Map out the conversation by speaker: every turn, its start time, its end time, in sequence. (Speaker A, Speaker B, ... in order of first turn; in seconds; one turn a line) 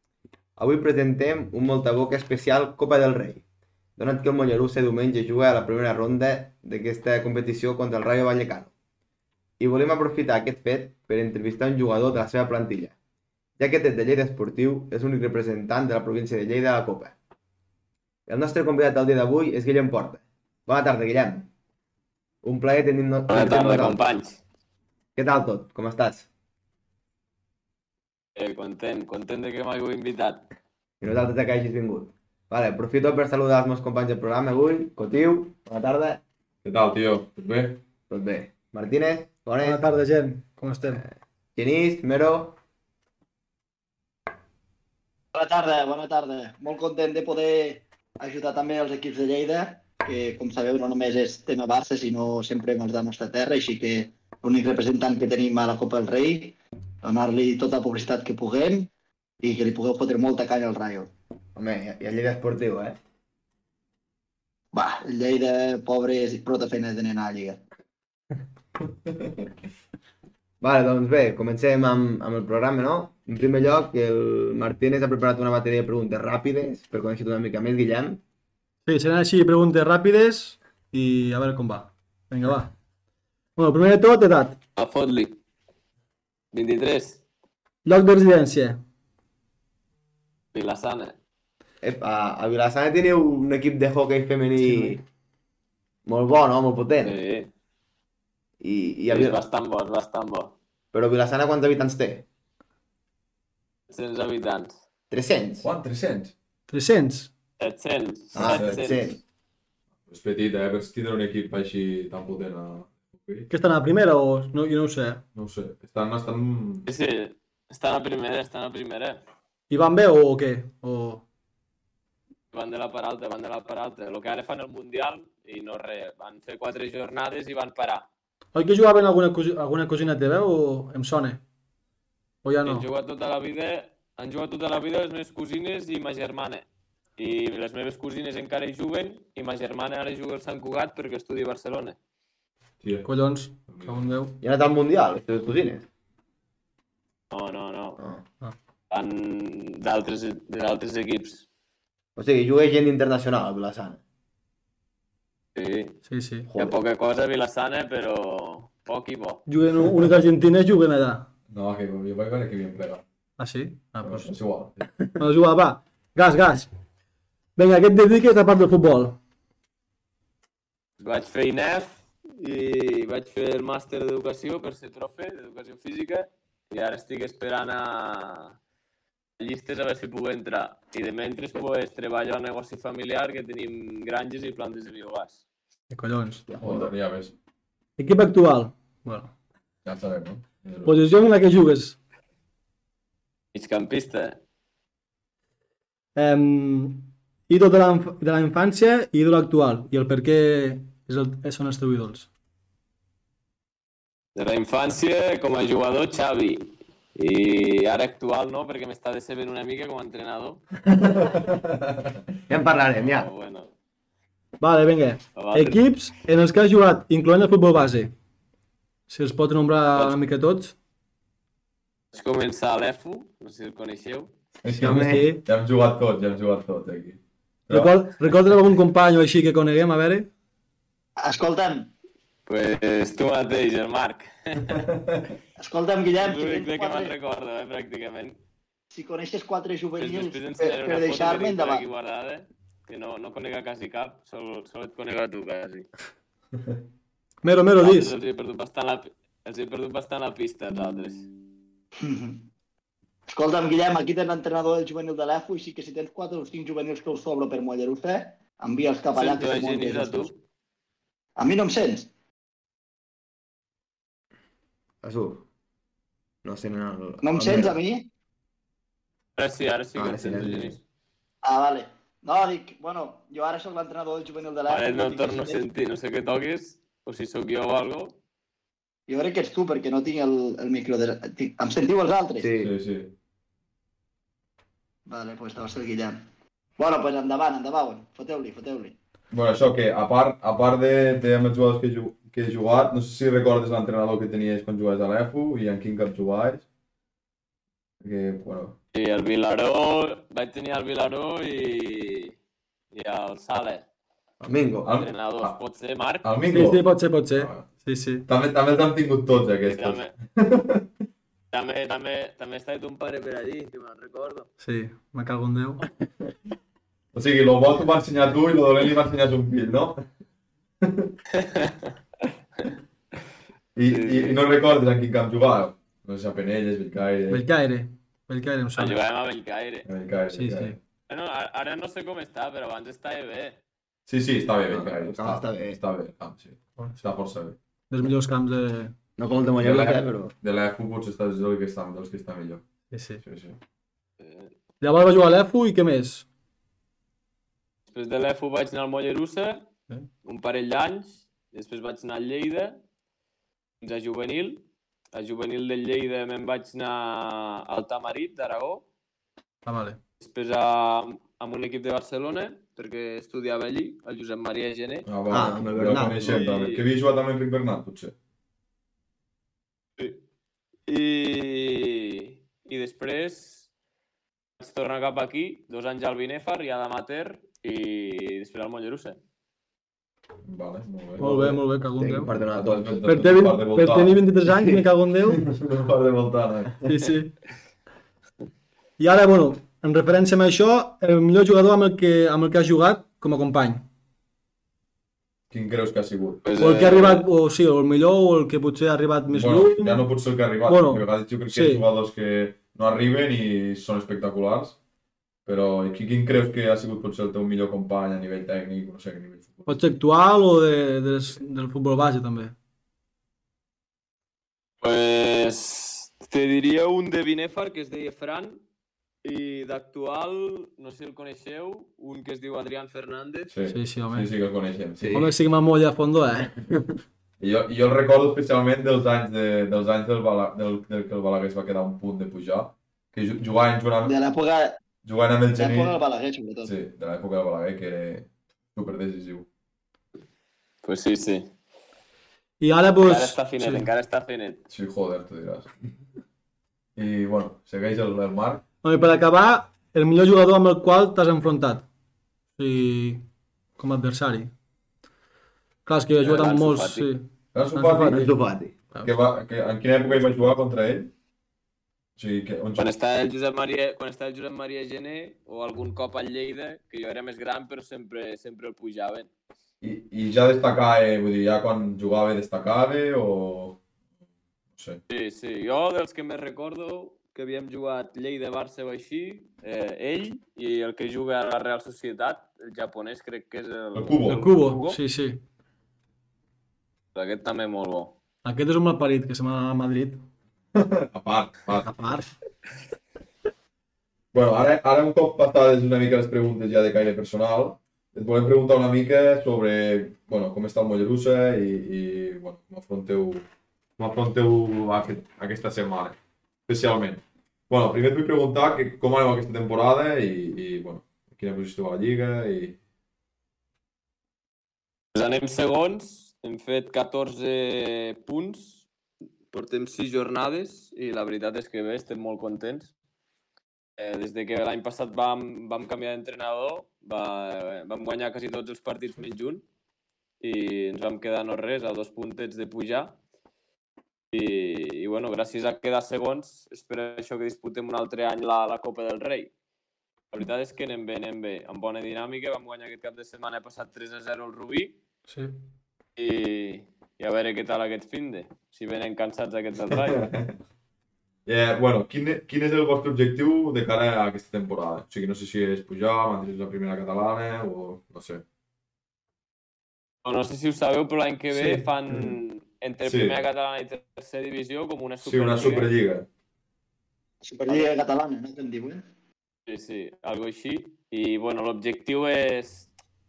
Speaker A: 0.6-3.4
Speaker A: 4.0-8.7
Speaker A: 9.6-12.9
Speaker A: 13.6-17.1
Speaker A: 18.3-21.5
Speaker A: 22.4-24.0
Speaker B: 23.3-24.4
Speaker A: 25.2-26.3
Speaker B: 28.4-30.5
Speaker A: 31.0-36.2
Speaker C: 36.6-37.8
Speaker A: 38.1-39.8
Speaker D: 39.6-41.0
Speaker A: 40.8-42.6
Speaker E: 45.3-58.9
Speaker E: 59.4-61.1
Speaker A: 61.5-63.0
Speaker E: 64.7-67.6
Speaker A: 70.6-78.2
Speaker D: 78.9-82.7
Speaker D: 83.6-84.6
Speaker B: 84.8-85.4
Speaker B: 86.5-87.2
Speaker D: 87.8-88.8
Speaker B: 90.5-91.2
Speaker A: 91.8-95.0
Speaker D: 94.6-95.0
Speaker A: 96.1-97.2
Speaker B: 97.0-97.5
Speaker A: 98.6-99.4
Speaker B: 99.1-100.5
Speaker A: 100.9-102.3
Speaker B: 103.9-104.7
Speaker A: 105.1-105.7
Speaker C: 105.6-106.3
Speaker D: 106.7-107.3
Speaker B: 107.6-109.2
Speaker A: 108.3-109.2
Speaker C: 108.4-108.9
Speaker C: 110.1-113.5
Speaker D: 113.5-115.2
Speaker C: 115.3-116.9
Speaker B: 116.9-119.2
Speaker D: 119.7-121.2
Speaker B: 122.5-128.1
Speaker D: 128.6-131.4
Speaker D: 132.4-132.9
Speaker B: 132.6-136.7
Speaker B: 137.2-142.0
Speaker C: 142.8-143.1
Speaker D: 143.0-144.4
Speaker C: 143.7-144.1
Speaker A: 144.4-145.9
Speaker B: 147.3-148.0
Speaker A: 148.0-148.2
Speaker B: 148.9-151.5
Speaker A: 152.2-154.0
Speaker B: 155.6-156.0
Speaker D: 156.1-156.5
Speaker A: 156.5-156.8
Speaker B: 156.5-159.4
Speaker D: 159.5-161.3
Speaker C: 161.5-163.0
Speaker D: 163.4-164.3
Speaker C: 164.0-164.8
Speaker D: 165.1-166.7
Speaker D: 167.6-169.2
Speaker B: 171.0-178.6
Speaker B: 179.4-185.4
Speaker D: 185.9-186.5
Speaker A: 186.5-186.9
Speaker C: 186.6-187.3
Speaker D: 188.0-189.3
Speaker C: 189.8-191.0
Speaker D: 190.9-192.0
Speaker B: 193.5-194.4
Speaker D: 196.2-202.3
Speaker B: 204.3-210.6
Speaker C: 211.2-212.1
Speaker A: 212.5-213.3
Speaker B: 212.9-213.7
Speaker D: 214.6-218.1
Speaker B: 215.4-215.8
Speaker D: 219.1-220.7
Speaker B: 222.1-224.3
Speaker C: 224.6-228.3
Speaker D: 224.7-225.4
Speaker A: 224.8-225.2
Speaker D: 227.7-230.3
Speaker E: 231.2-231.9
Speaker B: 232.5-234.8
Speaker C: 234.9-235.2
Speaker E: 235.6-237.1
Speaker B: 236.2-238.4
Speaker E: 238.9-241.9
Speaker B: 240.0-245.9
Speaker D: 247.4-248.2
Speaker B: 247.8-251.3
Speaker E: 252.0-252.4
Speaker E: 253.3-260.3
Speaker B: 259.1-260.4
Speaker E: 261.4-262.1
Speaker A: 265.0-265.5
Speaker A: 266.4-267.8
Speaker E: 267.2-268.1
Speaker B: 269.4-270.8
Speaker A: 270.0-270.8
Speaker E: 271.4-275.6
Speaker B: 274.7-278.2
Speaker E: 279.1-282.5
Speaker A: 282.4-282.7
Speaker C: 282.6-283.1
Speaker E: 285.1-286.2
Speaker E: 286.8-289.0
Speaker C: 289.3-296.7
Speaker C: 298.0-298.8
Speaker B: 298.9-302.4
Speaker B: 302.9-303.8
Speaker A: 304.4-304.9
Speaker C: 304.8-305.6
Speaker B: 305.0-306.3
Speaker C: 306.2-307.7
Speaker D: 306.5-308.3
Speaker C: 308.3-310.9
Speaker B: 309.7-310.1
Speaker B: 311.5-314.5
Speaker D: 314.6-315.8
Speaker C: 317.1-320.1
Speaker C: 320.8-321.1
Speaker B: 321.3-321.9
Speaker C: 323.8-327.5
Speaker B: 323.9-324.4
Speaker D: 327.3-329.0
Speaker B: 328.8-329.9
Speaker C: 329.9-330.8
Speaker D: 330.3-330.8
Speaker B: 331.1-333.6
Speaker C: 334.1-337.6
Speaker A: 334.7-335.8
Speaker D: 337.9-338.9
Speaker A: 339.2-340.3
Speaker C: 339.6-342.6
Speaker D: 342.9-343.2
Speaker C: 343.2-343.6
Speaker B: 344.2-344.5
Speaker D: 344.8-346.3
Speaker B: 347.9-349.7
Speaker B: 350.2-352.8
Speaker B: 353.8-358.9
Speaker D: 359.7-360.0
Speaker B: 360.2-365.1
Speaker C: 365.1-368.1
Speaker A: 365.3-366.4
Speaker B: 366.2-366.8
Speaker B: 370.9-373.7
Speaker B: 374.6-379.2
Speaker C: 380.4-381.3
Speaker D: 381.2-382.3
Speaker A: 381.2-382.9
Speaker C: 382.5-384.2
Speaker D: 383.0-385.4
Speaker C: 385.3-386.9
Speaker D: 386.8-387.4
Speaker D: 389.0-393.9
Speaker C: 395.5-396.4
Speaker B: 396.4-397.3
Speaker D: 396.6-400.1
Speaker C: 399.3-404.8
Speaker D: 400.7-401.8
Speaker C: 405.4-410.0
Speaker D: 409.7-412.6
Speaker B: 414.8-418.6
Speaker B: 419.2-423.5
Speaker C: 423.5-425.2
Speaker D: 423.7-424.3
Speaker A: 425.0-425.3
Speaker D: 425.1-426.6
Speaker C: 427.4-434.2
Speaker E: 434.1-434.8
Speaker C: 435.0-436.0
Speaker E: 435.6-436.7
Speaker C: 436.6-439.5
Speaker B: 440.8-441.5
Speaker D: 442.6-443.9
Speaker B: 443.0-444.6
Speaker C: 444.7-445.7
Speaker C: 447.0-448.6
Speaker D: 448.8-451.9
Speaker D: 452.6-453.3
Speaker D: 453.8-454.5
Speaker D: 455.9-458.3
Speaker B: 456.2-457.1
Speaker C: 457.5-458.3
Speaker A: 458.1-458.7
Speaker C: 459.0-461.1
Speaker C: 462.2-462.9
Speaker B: 462.8-469.3
Speaker C: 469.8-473.8
Speaker C: 474.8-475.0
Speaker B: 475.1-485.0
Speaker C: 483.9-484.5
Speaker D: 484.3-485.4
Speaker B: 487.1-488.2
Speaker D: 488.4-490.2
Speaker C: 490.7-491.9
Speaker D: 491.7-492.3
Speaker C: 494.3-503.5
Speaker C: 504.0-512.8
Speaker B: 515.1-518.9
Speaker B: 519.5-522.9
Speaker B: 524.0-529.6
Speaker B: 530.4-533.2
Speaker B: 534.3-539.5
Speaker B: 540.3-545.0
Speaker D: 545.3-545.6
Speaker B: 546.2-550.2
Speaker C: 549.9-550.6
Speaker C: 551.5-558.4
Speaker B: 560.2-565.9
Speaker C: 561.5-562.4
Speaker C: 563.0-563.4
Speaker C: 565.2-566.3
Speaker E: 567.4-569.0
Speaker B: 569.7-572.9